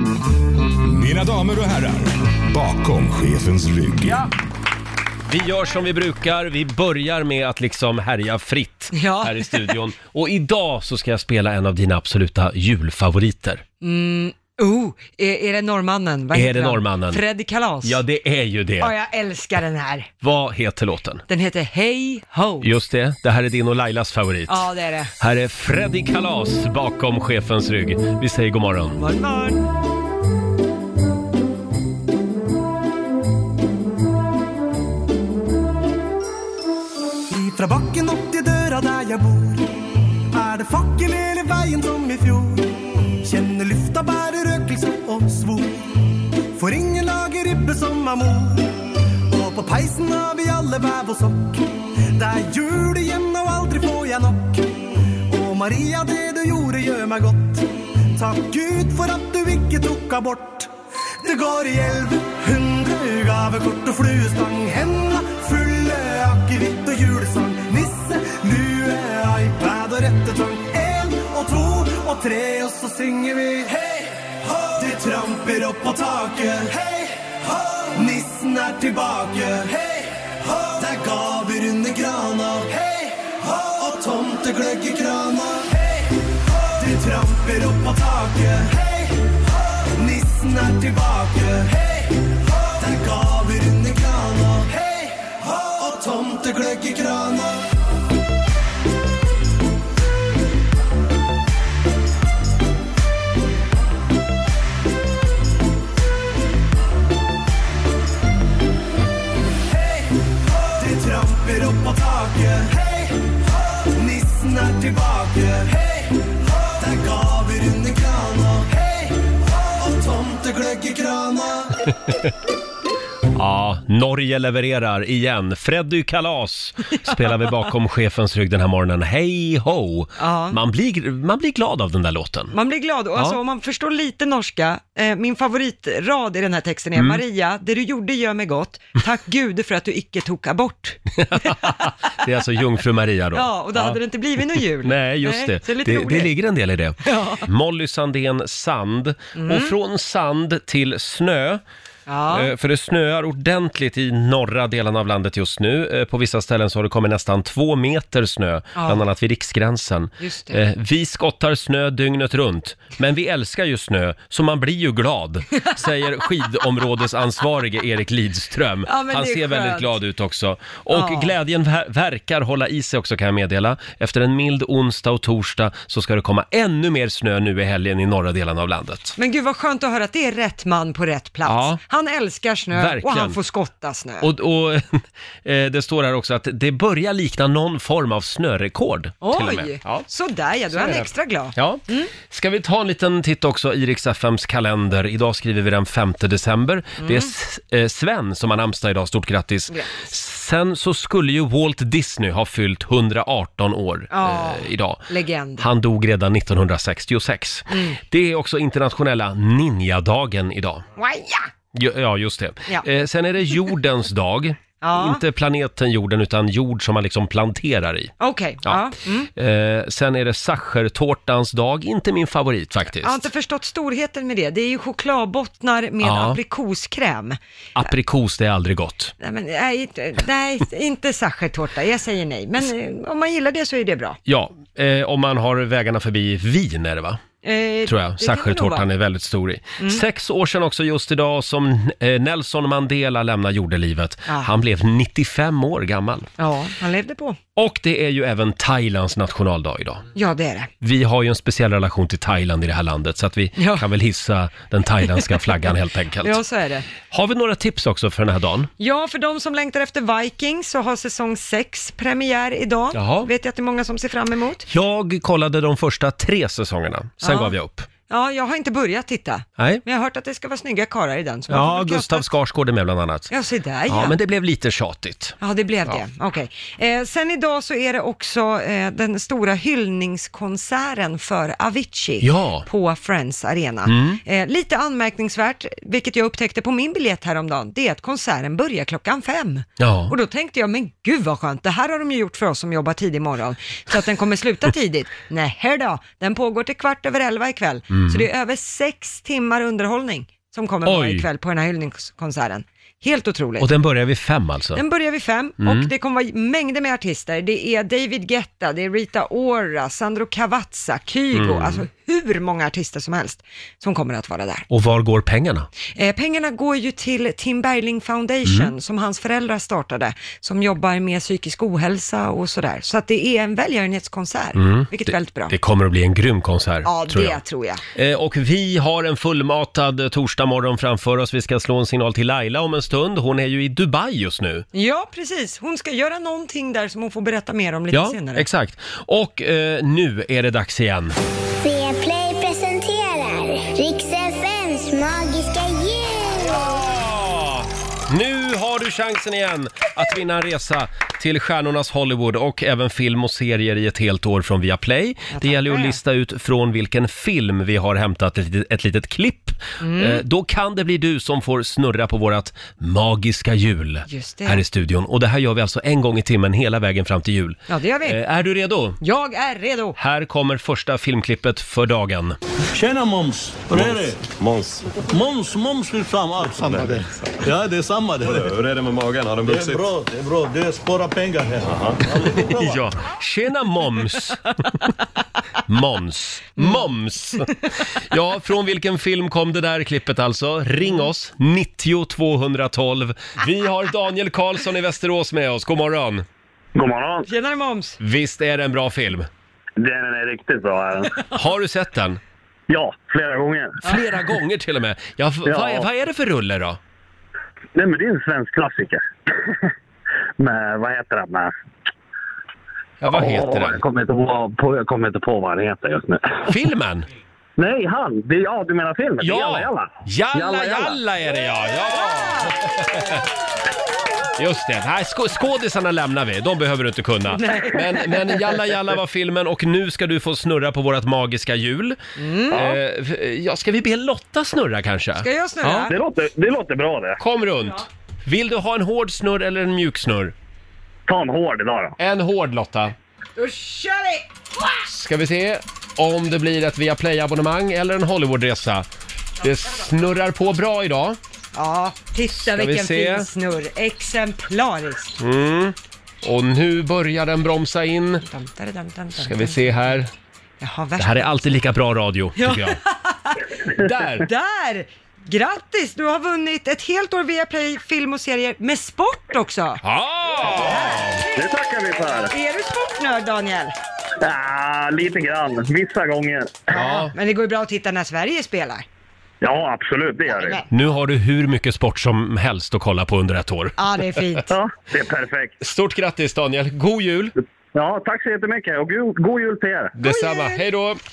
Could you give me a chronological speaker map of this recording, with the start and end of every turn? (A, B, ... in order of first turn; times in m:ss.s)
0:01.0-0:01.9 A
0:02.5-0:04.0 B
0:02.7-0:04.1 A
0:05.3-0:13.6 C
0:08.9-0:09.5 D
0:13.8-0:18.0 D
0:16.3-0:17.2 C
0:17.8-0:18.9 C
0:18.8-0:20.1 D
0:20.2-0:21.2 C
0:21.3-0:22.7 D
0:22.6-0:24.6 C
0:24.5-0:25.1 D
0:25.2-0:29.0 C
0:29.0-0:29.7 D
0:37.3-0:39.7 E
0:40.3-0:54.7 E
0:55.3-1:00.7 E
1:01.2-1:37.6 E
1:49.7-2:01.7 E
2:03.4-2:12.5 C
2:10.2-2:10.6 D
2:12.5-2:21.6 D
2:17.0-2:17.2 C
2:21.2-2:24.0 C
2:23.3-2:26.3 D
2:24.5-2:31.6 C
2:27.0-2:27.4 D
2:29.4-2:29.7 D
2:32.1-2:32.5 D
2:32.3-2:59.2 C
2:38.8-2:39.0 D
2:40.2-2:40.6 D
2:48.8-2:49.9 D
2:50.9-2:51.3 D
2:59.2-3:04.3 D
3:01.4-3:01.8 C
3:02.7-3:03.4 C
3:04.2-3:10.0 C
3:09.2-3:12.1 D
3:10.7-3:30.8 C
3:17.0-3:17.3 D
3:19.7-3:20.0 D
3:24.1-3:25.7 D
3:27.7-3:28.0 D
3:31.0-3:31.5 D
3:31.7-3:38.1 C
3:34.8-3:35.2 D
3:38.2-3:39.3 D
3:39.4-3:43.3 C
3:43.0-3:47.4 D
3:46.0-3:46.4 C
3:47.8-3:49.1 C
3:49.2-3:54.2 D
3:54.2-3:57.2 C
3:57.4-3:58.8 D
3:57.8-4:06.3 C
4:04.3-4:04.5 D
4:06.4-4:07.4 D
4:07.6-4:10.0 C
4:10.1-4:10.7 D
4:10.8-4:16.4 C
4:13.6-4:13.8 D
4:16.2-4:16.9 D
4:17.1-4:18.7 C
4:18.8-4:24.6 D
4:22.9-4:23.3 C
4:24.7-4:27.9 C
4:27.2-4:27.5 D
4:28.1-4:32.3 D
4:31.5-4:33.3 C
4:33.3-4:34.2 D
4:33.9-4:35.4 C
4:35.4-5:03.7 D
4:42.2-4:42.6 C
4:43.9-4:44.2 C
4:49.8-4:50.1 C
4:57.9-4:58.2 C
5:00.8-5:01.2 C
5:03.6-5:04.8 C
5:04.7-5:14.7 D
5:05.6-5:05.9 C
5:11.3-5:11.8 C
5:14.7-5:15.7 C
5:15.9-5:25.6 D
5:18.4-5:18.7 C
5:24.5-5:27.4 C
5:26.8-5:27.8 D
5:27.9-5:34.6 C
5:34.7-5:38.5 D
5:37.9-5:41.2 C
5:41.6-5:46.9 F
5:46.5-6:09.0 C
5:55.3-5:56.0 D
5:59.8-6:00.2 D
6:04.0-6:04.6 D
6:07.7-6:08.2 D
6:09.0-6:10.0 D
6:10.0-6:12.4 C
6:12.7-6:14.2 G
6:13.7-6:14.8 B
6:15.1-6:18.6 G
6:16.7-6:17.0 B
6:18.2-6:19.9 B
6:19.4-6:22.6 G
6:21.6-6:22.6 B
6:22.3-6:24.8 C
6:25.6-6:36.2 C
6:26.6-6:26.9 D
6:36.7-6:37.3 H
6:37.3-6:38.0 D
6:38.0-6:39.3 C
6:39.8-6:41.1 H
6:41.3-6:42.2 C
6:42.7-6:43.8 H
6:43.8-6:46.8 C
6:45.4-6:45.9 H
6:47.7-6:49.5 H
6:50.4-6:51.5 H
6:53.0-6:53.8 C
6:53.1-6:56.5 H
6:56.4-6:57.0 C
6:57.6-7:01.0 H
6:59.2-7:03.2 C
7:02.0-7:02.5 D
7:04.4-7:12.0 C
7:07.3-7:08.4 D
7:12.2-7:12.7 D
7:12.5-7:15.9 C
7:12.5-7:12.8 H
7:15.2-7:16.0 D
7:15.9-7:17.2 H
7:17.2-7:20.3 C
7:21.1-7:22.0 H
7:22.0-7:22.9 C
7:23.4-7:24.3 D
7:24.9-7:28.8 C
7:29.4-7:31.2 C
7:31.5-7:35.2 D
7:32.3-7:33.3 C
7:35.2-7:38.2 C
7:38.2-7:40.0 D
7:39.2-7:40.1 C
7:40.6-7:41.4 D
7:41.0-7:42.8 C
7:42.4-7:43.5 D
7:43.8-7:44.3 C
7:44.1-7:49.8 D
7:49.8-7:51.2 C
7:50.4-7:51.5 D
7:51.3-7:52.3 H
7:52.1-7:53.7 D
7:54.2-7:56.6 H
7:56.7-7:57.1 C
7:56.7-7:58.8 D
7:59.4-8:00.6 H
8:00.3-8:00.6 D
8:00.7-8:04.2 C
8:03.8-8:04.5 D
8:04.5-8:05.6 H
8:05.6-8:07.3 C
8:07.7-8:09.9 H
8:10.0-8:11.0 C
8:10.0-8:10.6 D